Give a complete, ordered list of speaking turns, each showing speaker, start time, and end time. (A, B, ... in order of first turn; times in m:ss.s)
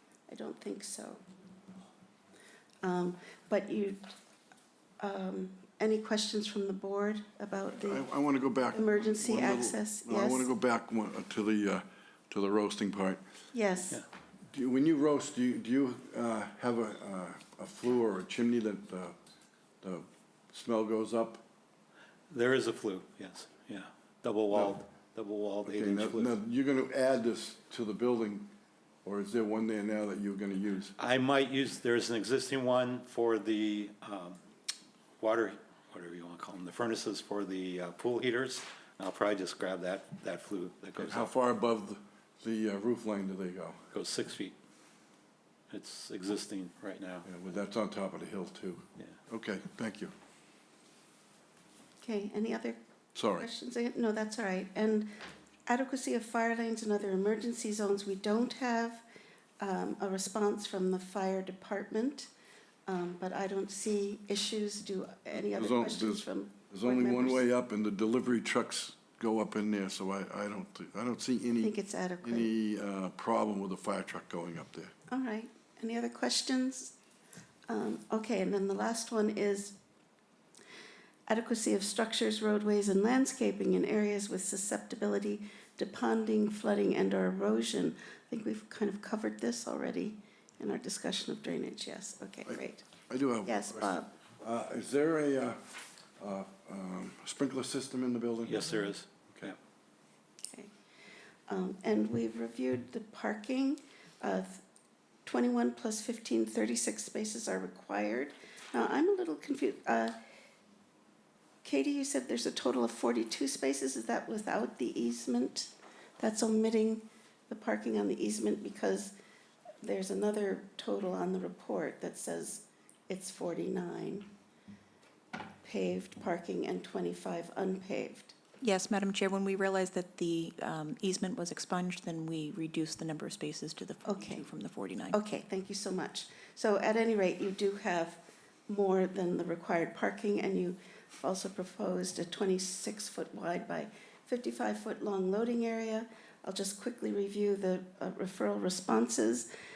0:00.3-0:01.2 A
0:02.8-0:04.0 A
0:05.0-0:08.1 A
0:07.8-0:13.2 B
0:08.7-0:10.5 A
0:13.5-0:14.0 A
0:14.5-0:19.2 B
0:19.8-0:21.4 B
0:22.3-0:26.4 C
0:25.6-0:28.5 B
0:29.0-0:30.9 B
0:31.0-0:34.4 C
0:35.2-0:41.3 C
0:41.0-0:43.8 B
0:43.9-0:44.5 C
0:45.7-0:47.3 C
0:47.2-0:50.1 B
0:52.0-0:52.8 A
0:53.1-0:53.5 B
0:53.4-0:55.1 A
0:55.7-0:59.0 A
0:59.6-1:02.3 A
1:02.9-1:07.5 A
1:05.3-1:14.9 B
1:11.6-1:12.5 A
1:15.1-1:16.9 A
1:17.7-1:19.8 A
1:21.3-1:32.9 A
1:32.4-1:35.6 B
1:33.4-1:34.1 A
1:36.2-1:38.7 B
1:38.4-1:39.6 C
1:41.5-1:44.6 A
1:45.2-1:50.2 A
1:51.6-1:59.1 A
1:59.8-2:04.3 A
2:05.6-2:08.4 A
2:08.6-2:15.2 D
2:14.0-2:14.5 A
2:15.1-2:29.5 A